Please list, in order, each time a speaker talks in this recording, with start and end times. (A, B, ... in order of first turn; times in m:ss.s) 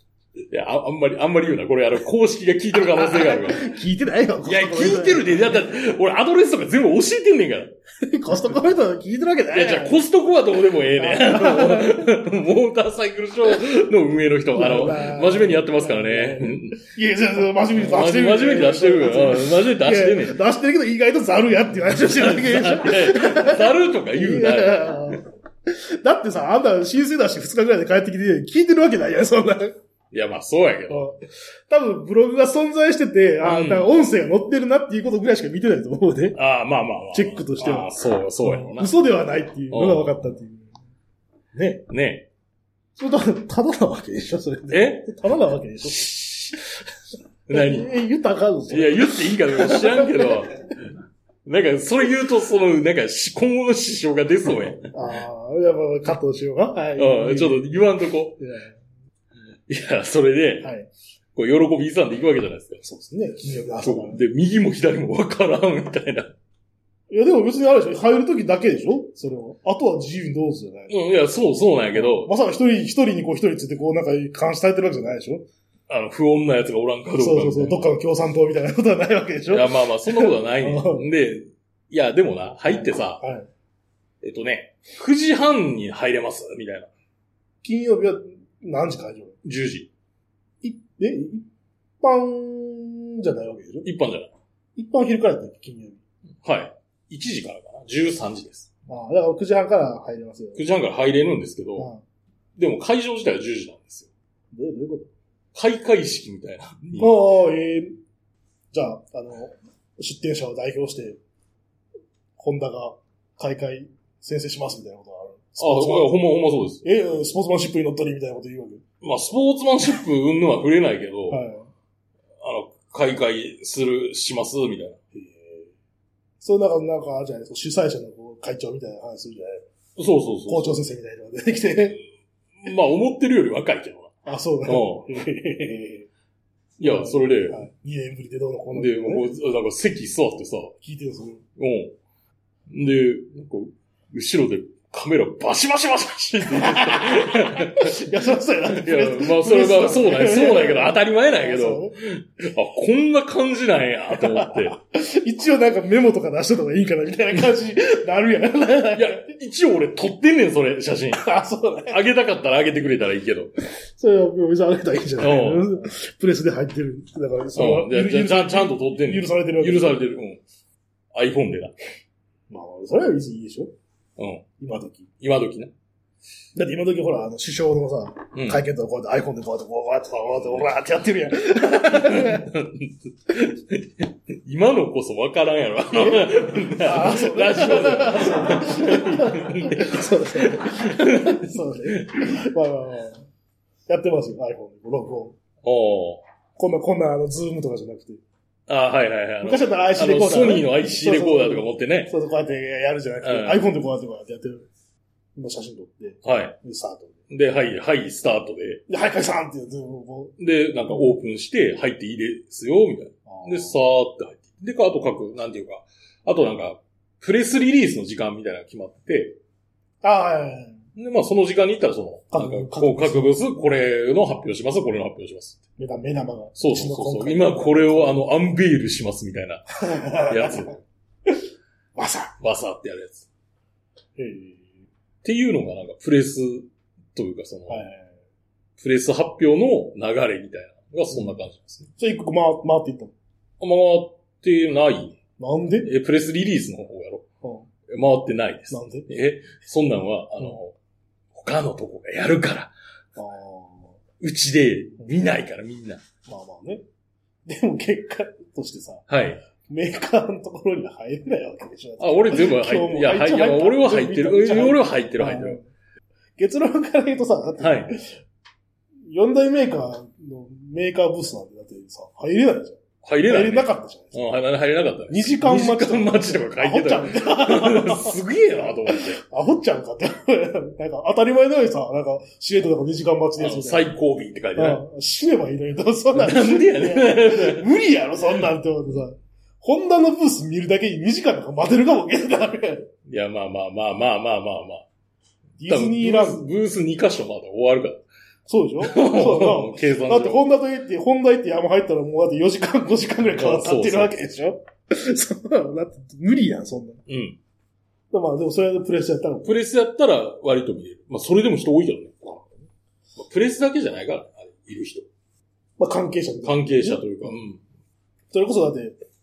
0:00.5-0:03.7 A
0:02.8-0:05.5 B
0:04.4-0:07.8 A
0:08.0-0:10.0 B
0:09.5-0:16.8 A
0:10.9-0:12.1 B
0:14.5-0:29.8 B
0:17.7-0:20.4 A
0:21.8-0:25.2 A
0:30.1-0:31.1 A
0:30.9-0:36.4 B
0:33.4-0:34.0 A
0:36.3-0:38.9 A
0:37.1-0:37.9 B
0:38.4-0:40.7 B
0:39.7-0:40.2 A
0:41.5-0:41.9 B
0:41.9-0:42.3 A
0:43.0-0:46.6 B
0:44.7-0:45.1 A
0:45.8-0:46.6 A
0:47.5-0:47.9 A
0:47.5-0:50.4 B
0:48.7-0:50.6 A
0:51.4-0:54.8 A
0:54.9-0:57.8 B
0:57.0-0:58.4 A
0:58.4-0:58.8 B
0:59.7-1:00.7 A
1:00.6-1:00.9 B
1:01.4-1:02.8 A
1:02.8-1:04.2 B
1:03.8-1:06.3 A
1:07.1-1:11.0 B
1:10.9-1:12.3 A
1:11.9-1:15.5 B
1:15.9-1:17.9 A
1:17.2-1:21.1 B
1:19.5-1:23.2 A
1:22.7-1:23.5 B
1:24.2-1:26.9 A
1:27.6-1:29.4 B
1:29.4-1:29.9 A
1:30.6-1:31.4 B
1:32.0-1:33.9 B
1:33.8-1:34.3 A
1:34.8-1:36.0 B
1:36.4-1:38.7 A
1:38.9-1:40.6 B
1:40.6-1:41.9 A
1:41.8-1:42.0 B
1:42.6-1:44.1 A
1:44.5-1:45.1 B
1:45.5-1:47.2 A
1:47.0-1:48.0 B
1:48.7-1:51.2 B
1:52.4-1:56.2 B
1:55.6-1:56.9 A
1:56.8-1:58.8 B
1:59.0-2:01.4 A
2:01.3-2:01.7 B
2:02.4-2:05.0 A
2:05.2-2:05.7 B
2:06.4-2:09.7 B
2:10.0-2:10.8 A
2:10.5-2:12.0 B
2:12.6-2:14.1 A
2:14.2-2:16.1 B
2:14.6-2:15.1 A
2:16.8-2:17.6 A
2:16.8-2:19.3 B
2:18.7-2:20.8 A
2:20.8-2:21.4 B
2:21.6-2:22.0 A
2:22.7-2:28.0 A
2:26.5-2:32.0 B
2:28.7-2:34.8 A
2:34.2-2:39.3 B
2:39.0-2:41.2 A
2:41.1-2:42.0 B
2:41.9-2:43.5 A
2:44.0-2:50.0 B
2:45.2-2:45.8 A
2:47.6-2:50.4 A
2:51.1-2:51.8 A
2:52.5-2:53.7 B
2:54.2-2:54.4 A
2:54.6-2:55.1 B
2:55.2-2:55.7 A
2:56.6-3:02.5 B
2:58.3-2:58.6 A
3:01.8-3:12.2 A
3:06.0-3:13.3 B
3:13.9-3:15.4 B
3:15.6-3:16.2 A
3:16.6-3:18.2 B
3:18.7-3:22.1 A
3:19.4-3:24.7 B
3:23.2-3:23.6 A
3:25.4-3:27.2 B
3:26.2-3:26.6 A
3:27.3-3:28.8 A
3:28.9-3:30.4 B
3:30.4-3:39.4 A
3:33.3-3:33.8 B
3:40.0-3:40.8 B
3:41.0-3:45.6 A
3:42.3-3:43.4 B
3:45.8-3:48.2 B
3:46.6-3:50.8 A
3:49.8-3:50.7 B
3:52.0-3:52.3 B
3:52.4-3:53.3 A
3:54.2-3:54.6 B
3:55.2-3:57.8 A
3:57.7-3:58.1 B
3:58.8-4:01.9 A
4:02.0-4:03.1 B
4:03.6-4:05.2 A
4:05.4-4:05.9 B
4:05.8-4:07.3 A
4:07.9-4:10.8 A
4:08.7-4:09.1 B
4:11.3-4:12.7 A
4:13.2-4:14.0 B
4:14.2-4:16.0 A
4:16.3-4:16.8 B
4:17.5-4:19.0 B
4:19.1-4:19.4 A
4:19.6-4:25.6 B
4:22.0-4:25.6 A
4:26.4-4:28.2 B
4:27.6-4:27.9 A
4:29.1-4:34.2 B
4:33.0-4:39.2 A
4:35.1-4:38.2 B
4:38.8-4:43.9 B
4:43.4-4:44.8 A
4:44.6-4:52.9 B
4:46.2-4:47.7 A
4:53.1-4:54.9 A
4:55.6-4:56.4 B
4:55.7-4:58.0 A
4:58.5-5:07.0 B
4:58.8-5:00.4 A
5:03.3-5:04.2 A
5:07.1-5:07.4 A
5:08.1-5:09.6 B
5:09.4-5:12.1 A
5:12.2-5:12.5 B
5:13.2-5:15.1 A
5:15.8-5:17.0 B
5:16.4-5:17.6 A
5:18.3-5:19.0 B